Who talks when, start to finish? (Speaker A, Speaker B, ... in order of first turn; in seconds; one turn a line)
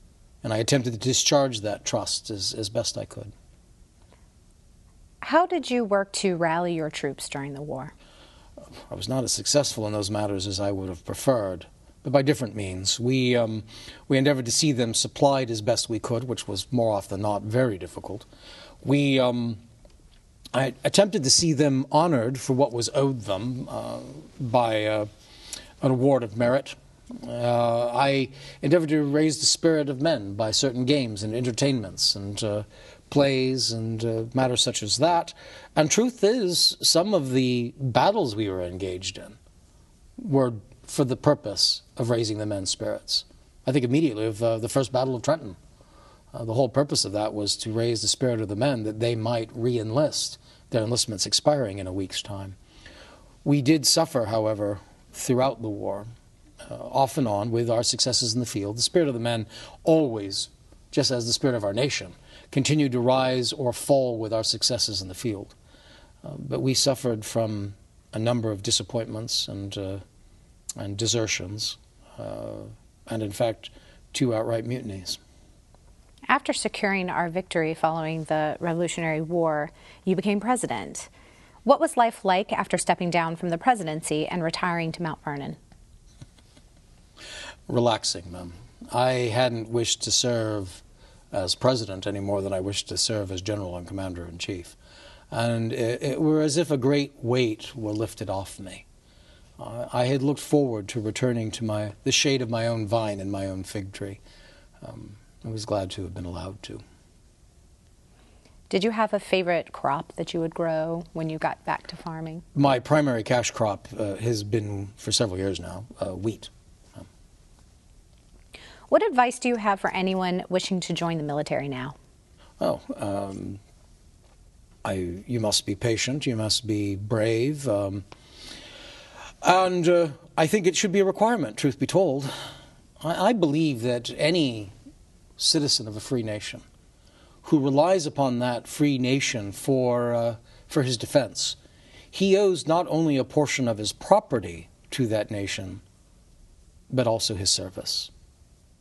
Speaker A: 0.4-3.3
Speaker B: 5.2-7.9
Speaker A: 8.9-18.3
Speaker A: 18.8-19.6
Speaker A: 20.5-25.1
Speaker A: 25.8-39.4
Speaker A: 40.2-45.6
Speaker A: 46.3-52.6
Speaker A: 53.4-56.1
Speaker A: 56.6-65.6
Speaker A: 66.2-70.0
Speaker A: 70.8-75.2
Speaker B: 76.3-81.1
Speaker B: 81.7-85.6
Speaker A: 87.7-94.8
Speaker A: 95.3-98.8
Speaker A: 99.6-104.2
Speaker A: 104.8-106.8
Speaker B: 108.7-112.5
Speaker A: 112.5-117.1
Speaker B: 118.9-122.0
Speaker A: 122.6-123.6
Speaker A: 124.8-128.0
Speaker A: 129.4-132.3
Speaker A: 133.0-134.7
Speaker A: 135.4-136.6
Speaker A: 137.4-141.6
Speaker A: 142.1-145.8
Speaker A: 146.9-148.1